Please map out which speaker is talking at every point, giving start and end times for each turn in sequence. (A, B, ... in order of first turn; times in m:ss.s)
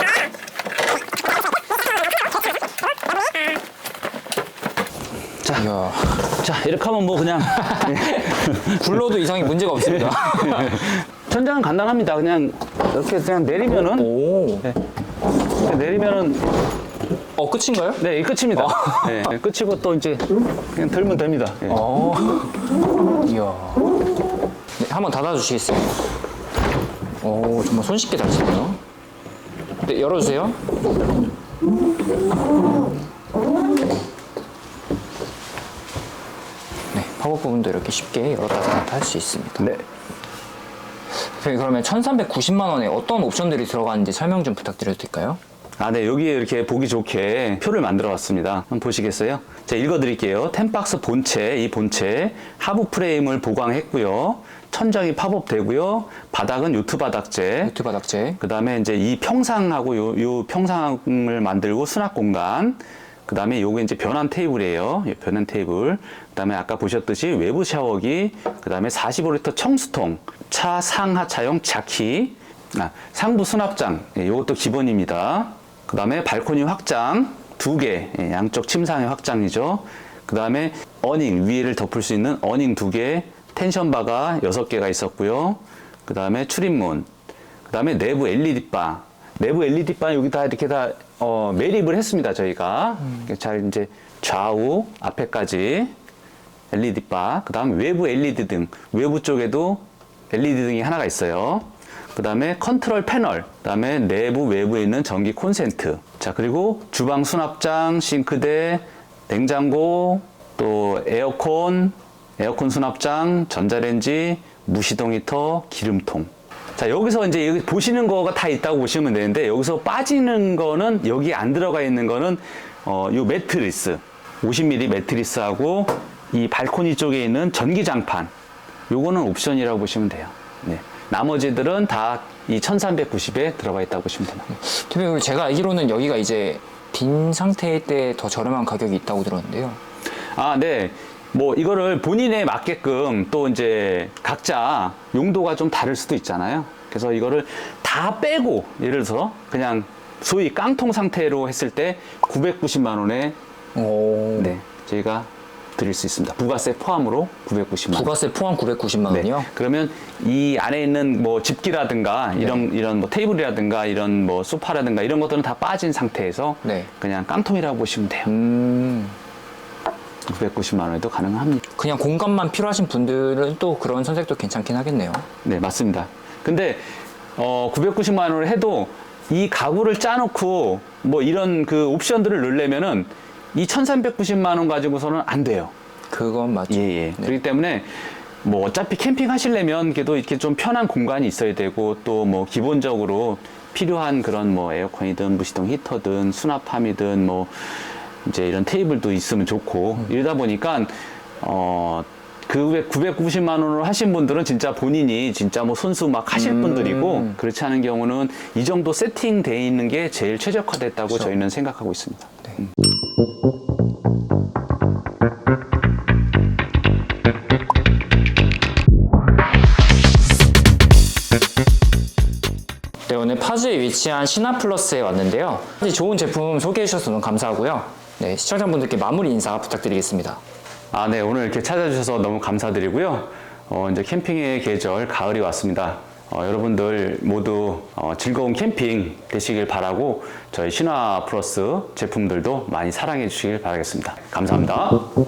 0:05.4-0:14.1 A
0:05.5-0:06.2 B
0:07.6-0:11.0 B
0:14.0-0:14.8 B
0:15.5-0:16.6 A
0:17.4-0:19.3 B
0:18.0-0:21.8 A
0:21.7-0:22.7 B
0:23.2-0:24.0 B
0:24.8-0:26.0 B
0:27.2-0:28.8 B
0:29.8-0:30.6 B
0:36.9-0:39.7 B
0:41.2-0:45.4 B
0:45.8-0:57.7 A
0:57.6-0:58.4 B
0:58.4-1:27.1 A
1:27.7-1:35.9 A
1:36.7-2:08.3 A
2:08.9-2:14.5 A
2:14.5-2:19.8 B
2:20.4-2:33.4 A
2:33.8-2:34.5 B
2:34.4-2:38.1 A
2:37.9-2:39.5 B
2:39.1-2:48.3 A
2:46.6-2:46.9 B
2:48.3-2:49.2 B
2:50.3-2:51.6 A
2:51.8-2:55.3 B
2:55.4-3:05.7 A
3:06.1-3:07.3 B
3:06.7-3:32.5 A
3:26.4-3:27.4 B
3:43.1-3:50.4 B
3:50.9-4:05.1 A